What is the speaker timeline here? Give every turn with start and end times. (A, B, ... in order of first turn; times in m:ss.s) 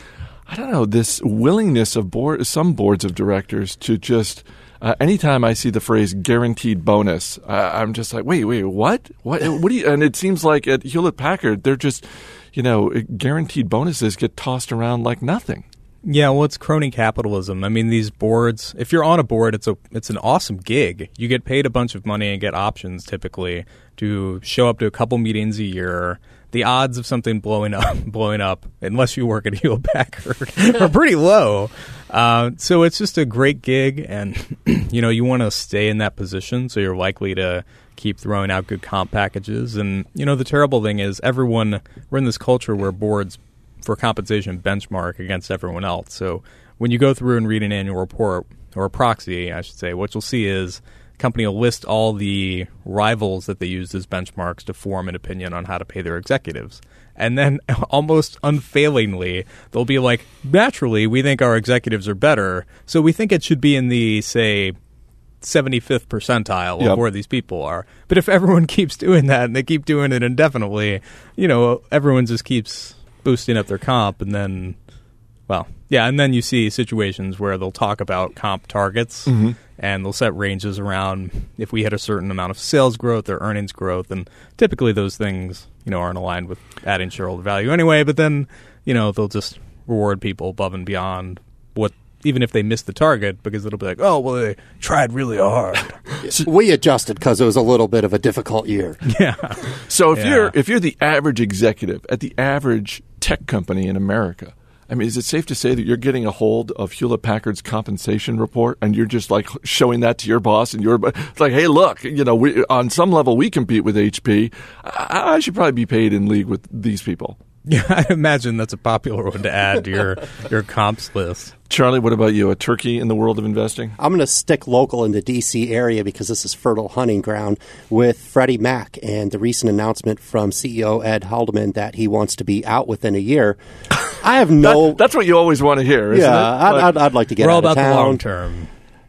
0:00.5-0:15.6 A
0:16.0-1:04.8 B
1:05.4-1:14.8 B
1:15.5-1:36.0 B
1:19.3-1:19.6 A
1:36.2-1:39.0 C
1:39.0-1:39.6 B
1:39.8-1:57.4 A
1:40.2-1:40.5 B
1:57.6-2:01.5 B
2:01.7-2:04.0 A
2:04.0-2:13.6 C
2:14.2-2:15.0 C
2:14.6-2:17.0 A
2:16.1-2:18.2 C
2:17.4-2:18.7 B